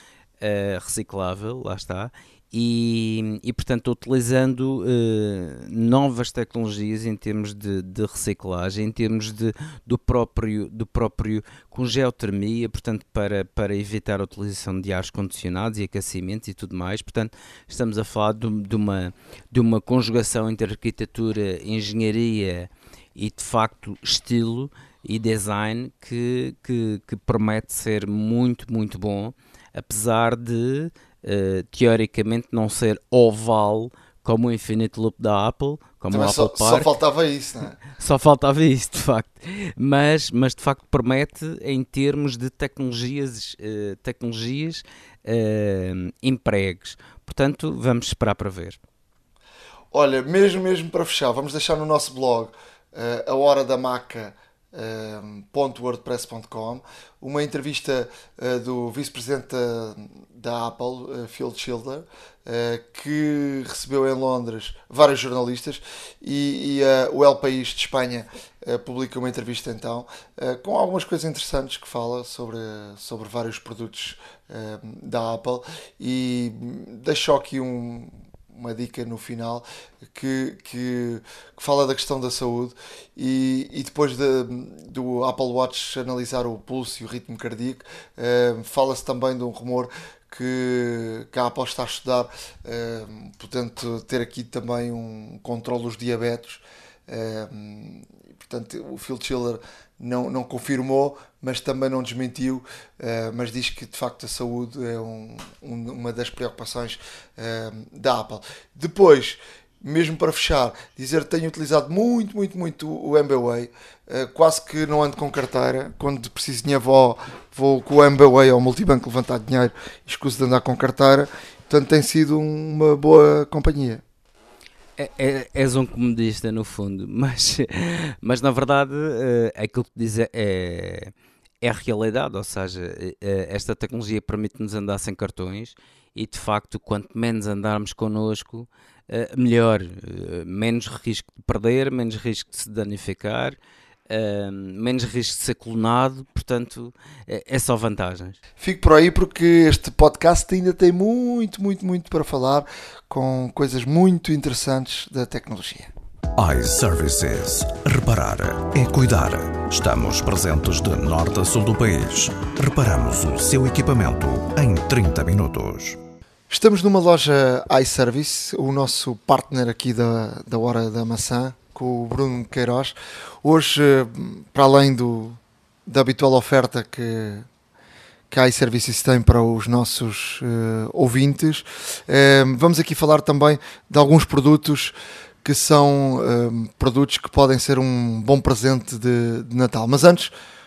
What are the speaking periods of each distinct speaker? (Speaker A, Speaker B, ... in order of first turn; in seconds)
Speaker A: 0.4-36.9, 38.0-48.8, 125.0-143.6, 144.1-148.4
Speaker B: 36.1-37.8, 49.9-124.0, 148.6-155.9, 166.5-177.5, 178.3-190.3
Speaker C: 156.4-166.0